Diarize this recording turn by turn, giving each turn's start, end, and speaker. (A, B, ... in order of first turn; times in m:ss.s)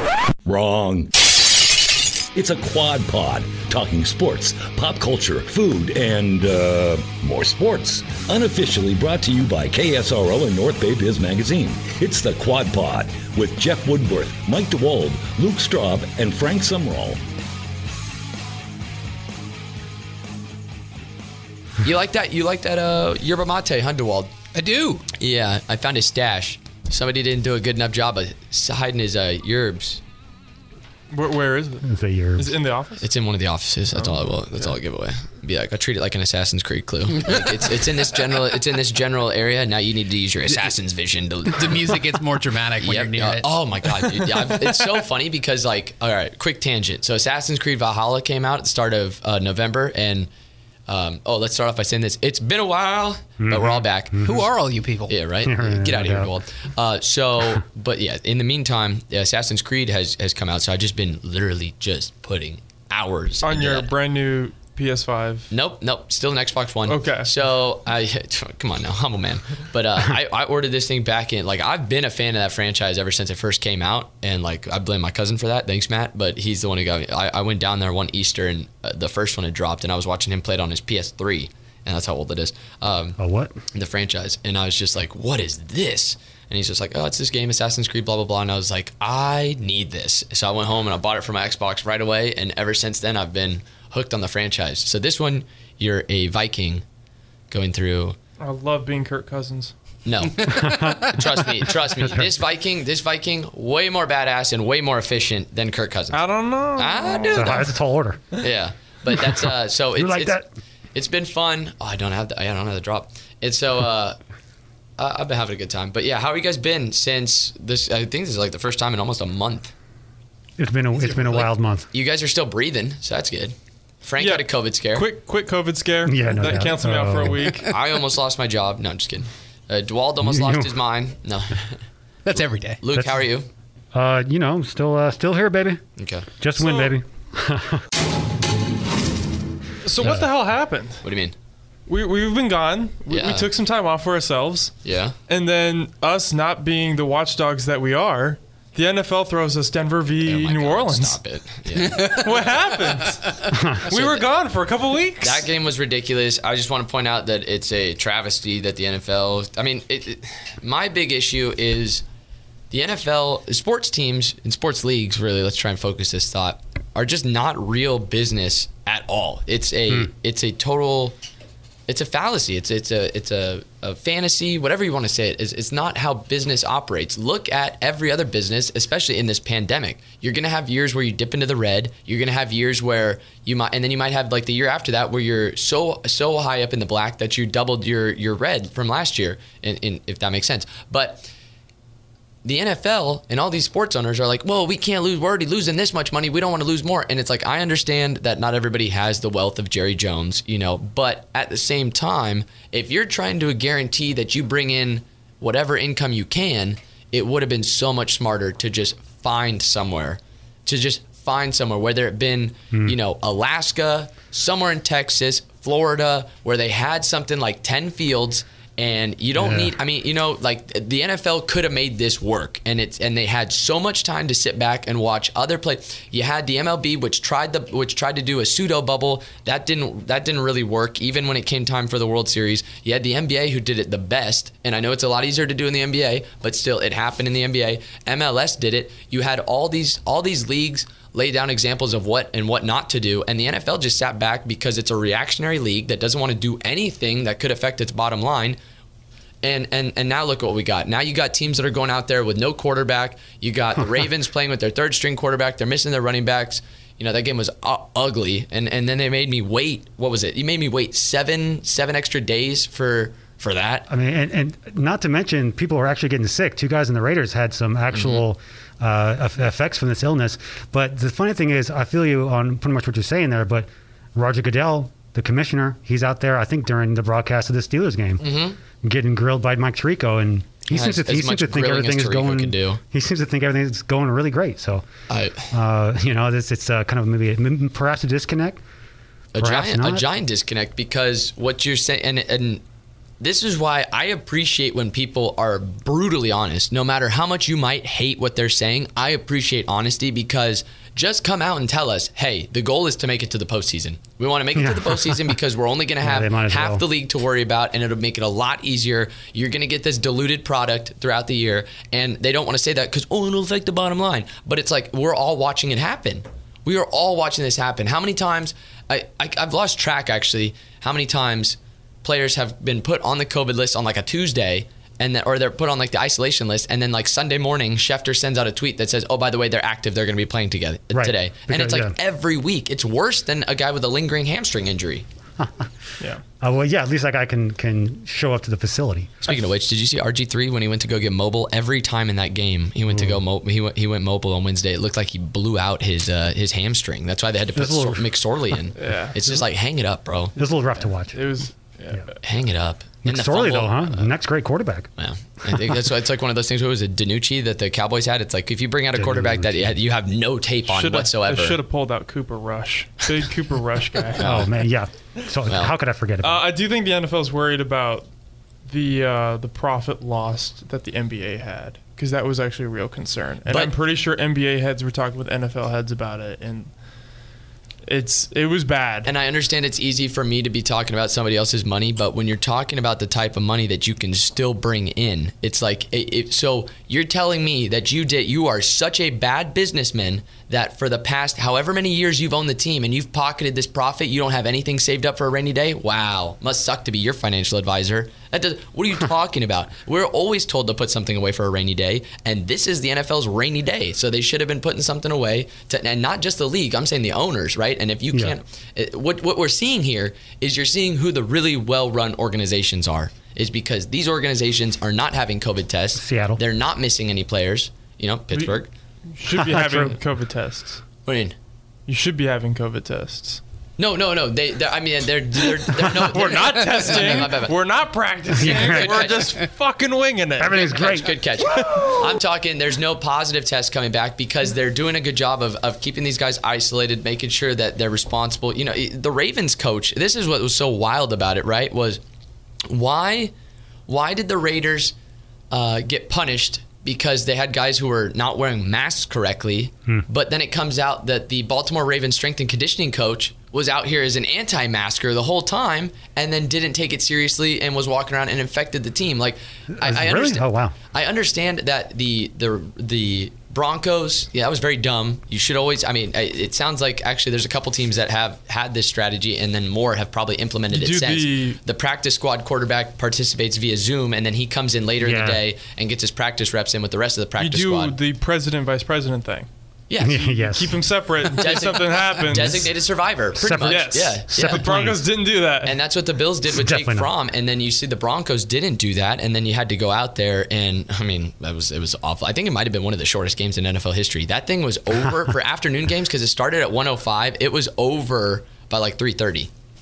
0:00.4-0:01.1 A
0:02.3-0:17.2 A
0:21.8-0:24.3 B
0:24.5-0:25.0 C
0:25.2-0:30.0 B
0:31.1-0:33.1 D
0:31.8-0:32.5 E
0:33.0-0:42.0 B
0:33.9-0:34.7 D
0:41.5-0:43.5 C
0:42.8-0:50.3 B
0:50.9-0:54.2 B
0:53.4-0:54.5 E
0:54.2-0:55.1 C
0:55.1-1:03.9 B
0:55.4-0:56.3 E
1:03.4-1:05.5 D
1:05.5-1:23.2 B
1:06.9-1:07.3 D
1:23.2-1:23.5 E
1:23.7-1:36.8 B
1:37.5-1:38.2 B
1:38.4-1:39.7 D
1:40.0-1:46.2 B
1:40.4-1:42.3 E
1:46.1-1:47.6 D
1:46.7-1:47.7 B
1:47.3-1:48.3 E
1:48.4-1:50.4 B
1:49.1-1:50.4 E
1:50.9-1:54.2 B
1:55.0-1:59.7 B
2:00.6-2:01.9 E
2:01.1-2:05.1 B
2:04.2-2:07.7 D
2:06.0-2:07.6 E
2:07.6-2:11.7 B
2:10.2-2:10.7 E
2:12.2-2:12.8 C
2:12.8-2:13.5 B
2:13.9-2:15.8 E
2:16.0-2:16.3 B
2:16.4-2:17.8 E
2:16.6-2:16.9 D
2:19.8-2:21.0 D
2:20.0-2:20.3 E
2:21.0-2:21.3 B
2:21.9-2:24.8 D
2:23.1-2:23.5 B
2:24.8-2:25.1 B
2:25.3-2:31.2 D
2:30.2-2:32.4 B
2:31.7-2:35.5 D
2:33.5-2:33.8 E
2:33.8-2:34.3 B
2:35.2-2:42.0 B
2:42.7-2:51.2 B
2:51.9-3:11.3 B
3:12.4-4:08.6 B
3:39.4-3:39.7 E
4:09.4-4:23.9 B
4:23.9-4:38.3 E
4:27.9-4:28.2 B
4:38.2-4:38.6 B
4:38.8-4:44.8 E
4:40.7-4:42.8 B
4:45.1-4:45.5 B
4:45.5-4:48.6 E
4:49.3-4:52.6 B
4:49.4-4:50.0 E
4:53.2-5:35.0 B
5:04.6-5:05.3 E
5:06.0-5:06.8 E
5:30.9-5:31.9 E
5:35.4-5:35.7 E
5:36.4-5:39.2 E
5:39.2-5:50.3 B
5:47.6-5:48.1 E
5:48.8-5:49.1 D
5:50.4-5:51.2 E
5:51.1-5:52.1 D
5:52.2-5:54.1 B
5:53.0-5:54.9 E
5:55.0-6:01.6 B
5:55.5-5:55.7 E
5:58.9-5:59.7 E
6:00.7-6:04.4 D
6:04.2-6:04.5 B
6:04.2-6:06.4 E
6:05.5-6:05.7 B
6:06.2-6:08.0 D
6:08.6-6:16.7 D
6:13.5-6:13.7 B
6:17.8-6:19.1 D
6:19.0-6:58.7 B
6:56.0-6:56.4 E
6:59.2-7:00.8 D
6:59.4-7:00.0 E
7:01.0-7:01.4 B
7:01.9-7:03.4 D
7:03.8-7:07.6 B
7:05.6-7:12.0 D
7:08.3-7:09.2 E
7:08.4-7:09.4 B
7:10.4-7:11.1 E
7:10.6-7:22.0 B
7:22.6-7:23.3 B
7:23.9-7:24.9 B
7:25.5-7:58.0 B
7:39.7-7:40.7 E
7:50.7-7:51.6 D
7:55.0-7:55.4 E
7:57.4-7:59.5 D
7:59.9-8:00.2 B
8:00.0-8:00.8 E
8:00.1-8:02.7 D
8:01.4-8:04.7 B
8:03.3-8:05.0 E
8:03.6-8:05.8 D
8:05.6-8:19.5 B
8:06.5-8:07.1 E